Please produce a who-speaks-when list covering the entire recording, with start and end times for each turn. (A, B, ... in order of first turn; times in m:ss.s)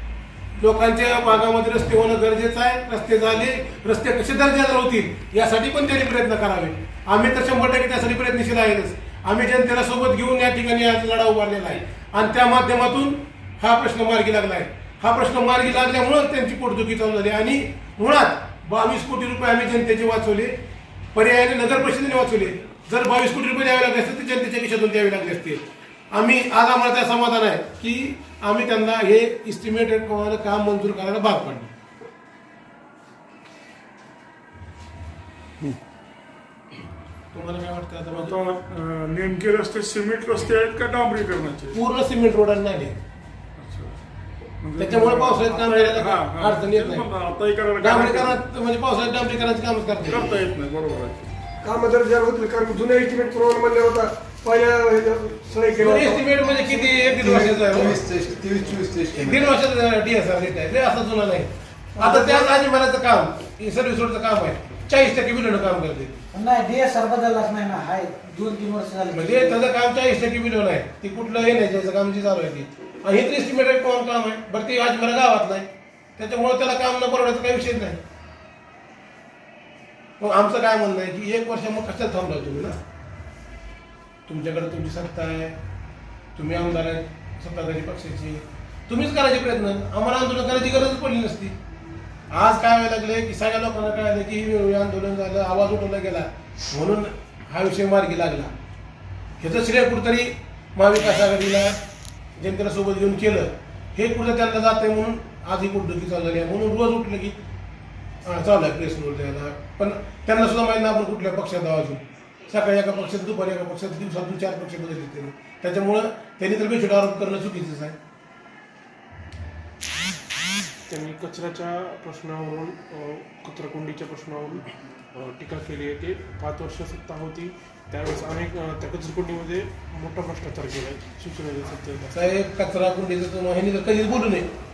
0:00.6-0:20.6 A
0:21.1-0:31.7 A
0:37.3-0:38.4 A
0:38.1-0:41.8 B
0:41.7-0:43.0 A
0:43.6-0:44.0 B
0:44.6-0:48.4 B
0:44.8-0:47.1 A
0:47.8-0:50.4 A
0:50.0-0:51.3 B
0:51.6-0:57.2 C
0:55.8-0:58.0 A
0:57.2-0:59.5 D
0:59.2-1:06.2 A
1:02.0-1:02.5 C
1:06.3-1:09.6 E
1:09.1-1:18.0 A
1:20.2-1:22.8 A
1:24.3-1:25.6 A
1:26.4-1:31.6 A
1:32.3-1:38.5 A
1:39.4-1:41.8 A
1:42.4-1:47.4 A
1:48.2-1:58.0 A
2:00.9-2:12.2 F
2:12.1-2:14.5 A